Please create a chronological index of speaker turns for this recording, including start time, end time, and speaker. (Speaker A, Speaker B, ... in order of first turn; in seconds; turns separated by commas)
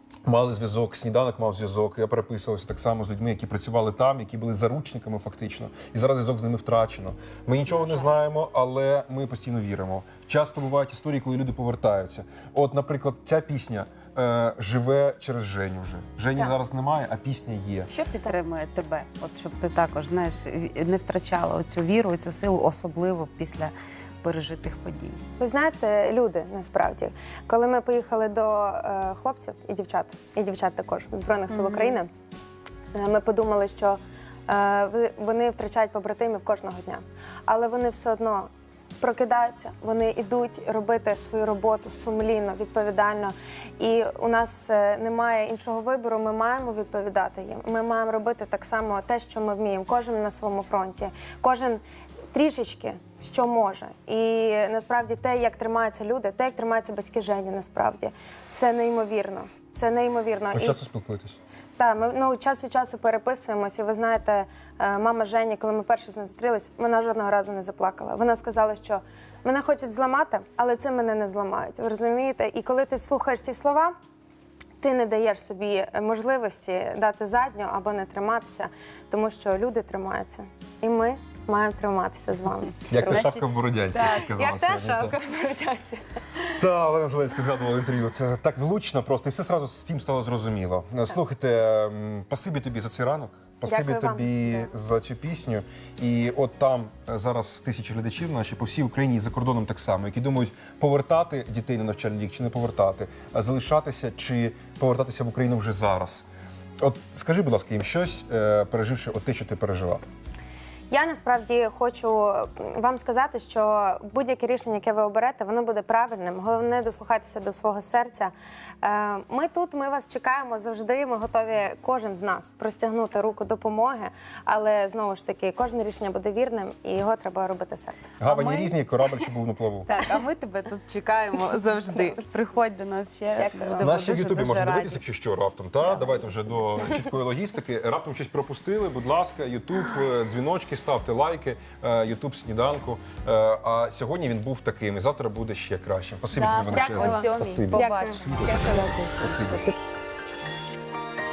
Speaker A: 0.3-17.9, Speaker B: 17.9-18.4, Speaker C: 18.1-25.2, Speaker B: 25.4-32.1, Speaker C: 31.5-32.0, Speaker B: 32.9-38.5, Speaker B: 39.0-51.8, Speaker B: 52.3-60.8, Speaker A: 60.5-61.4, Speaker B: 61.8-73.9, Speaker B: 74.8-83.4, Speaker A: 82.9-85.2, Speaker C: 83.1-84.2, Speaker B: 84.0-86.4, Speaker A: 86.6-106.2, Speaker B: 93.7-94.7, Speaker A: 106.8-110.0, Speaker B: 110.9-128.2, Speaker A: 128.2-129.9, Speaker C: 128.2-128.8, Speaker C: 129.9-135.0, Speaker B: 133.4-134.0, Speaker A: 133.8-149.7, Speaker C: 135.9-136.7, Speaker C: 146.3-149.5, Speaker B: 146.7-148.9